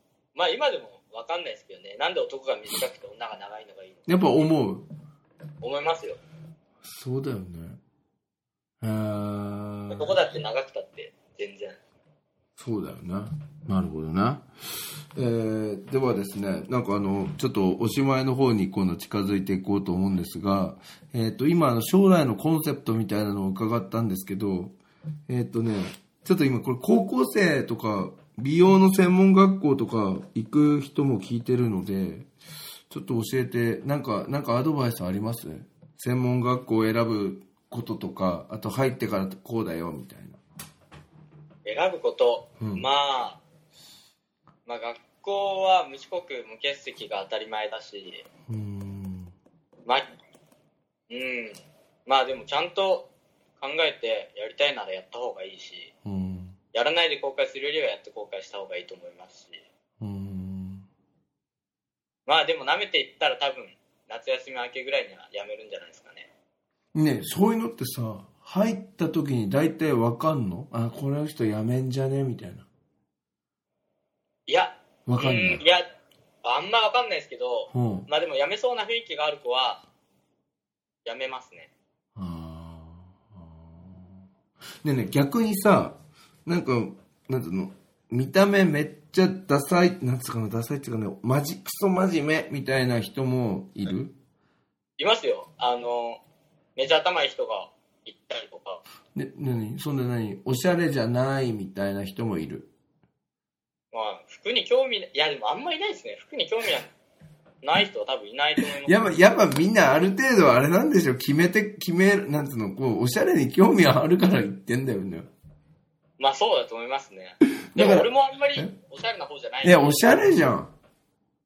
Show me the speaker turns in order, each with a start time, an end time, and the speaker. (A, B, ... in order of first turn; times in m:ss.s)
0:00.4-0:04.1 A
0:04.1-0:04.9 B
0:05.6-0:06.2 A
0:06.8-0:07.8 B
0:08.8-0:10.1 B
0:09.9-0:11.8 A
0:12.6-0:24.8 B
0:25.3-0:32.3 B
0:32.9-0:40.4 B
0:41.7-0:43.4 A
0:42.6-0:42.9 B
0:44.7-0:48.2 A
0:48.5-0:49.3 B
0:51.1-0:53.1 A
0:53.6-0:55.9 A
0:56.0-0:56.6 B
0:56.7-0:59.6 A
1:00.0-1:00.9 B
1:02.3-1:06.3 A
1:06.9-1:12.7 B
1:14.5-1:15.8 A
1:15.1-1:15.6 B
1:16.4-1:19.8 A
1:17.7-1:18.1 B
1:21.0-1:21.7 A
1:22.2-1:24.1 B
1:24.8-1:34.2 B
1:35.0-1:36.2 A
1:36.8-1:38.8 A
1:39.2-1:42.7 B
1:43.9-1:46.9 A
1:47.6-1:49.0 A
1:48.8-1:55.3 B
1:56.2-2:00.1 A
1:57.7-1:58.7 B
1:59.6-2:00.7 B